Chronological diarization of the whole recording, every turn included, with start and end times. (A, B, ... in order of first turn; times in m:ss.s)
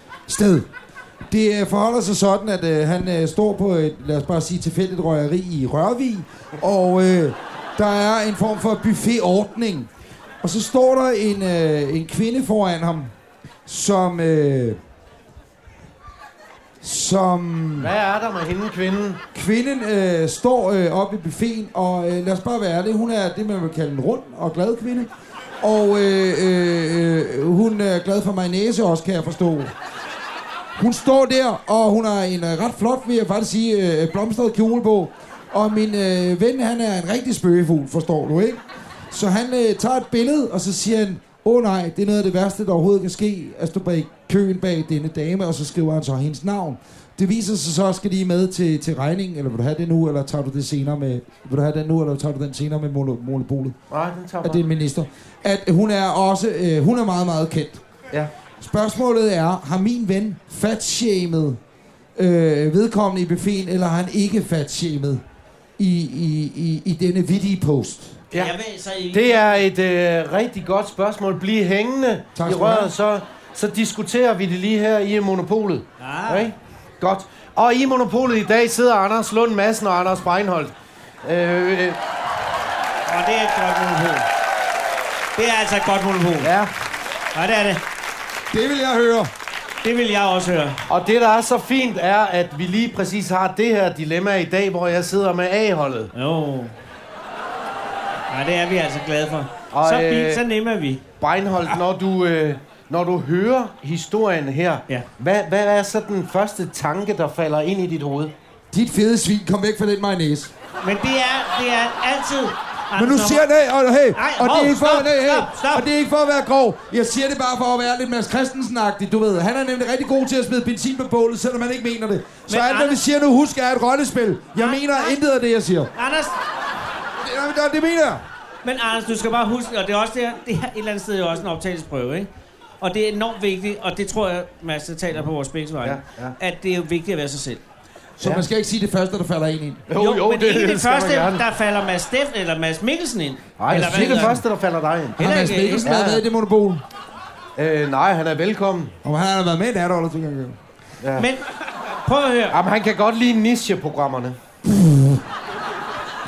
0:00.3-0:00.7 A
0:01.3-0:09.9 A
0:10.4-0:13.1 A
0:13.7-0:14.8 A
0:16.8-0:17.9 A
0:17.8-0:19.2 B
0:19.3-0:25.1 A
0:25.6-0:29.7 A
0:30.8-0:53.7 A
0:53.9-0:54.6 B
0:54.4-0:57.8 A
0:58.6-1:01.6 A
1:02.2-1:05.2 A
1:05.8-1:08.2 A
1:08.3-1:09.6 C
1:09.1-1:20.7 B
1:12.4-1:12.9 A
1:16.0-1:16.5 C
1:21.2-1:22.0 B
1:23.1-1:24.3 C
1:25.4-1:26.5 C
1:26.4-1:26.7 B
1:27.3-1:27.8 C
1:28.5-1:29.3 A
1:29.8-1:30.8 C
1:30.9-1:36.1 B
1:36.1-1:36.7 C
1:38.3-1:41.0 C
1:39.7-1:40.4 B
1:41.2-1:48.3 B
1:48.7-1:50.5 A
1:50.8-1:53.4 C
1:53.0-2:05.9 A
1:54.1-1:55.9 C
2:02.5-2:03.0 C
2:04.6-2:05.2 C
2:06.0-2:06.3 C
2:07.2-2:08.2 A
2:08.6-2:12.3 C
2:12.8-2:17.6 C
2:15.8-2:16.4 B
2:18.2-2:19.8 A
2:19.9-2:21.4 B
2:20.0-2:24.4 C
2:23.6-2:25.2 B
2:23.7-2:24.4 A
2:25.2-2:26.8 A
2:25.2-2:25.9 C
2:25.8-2:26.2 B
2:27.6-2:28.9 B
2:29.0-2:30.6 A
2:31.0-2:31.3 B
2:31.2-2:32.6 C
2:32.5-2:34.4 B
2:34.6-2:35.2 A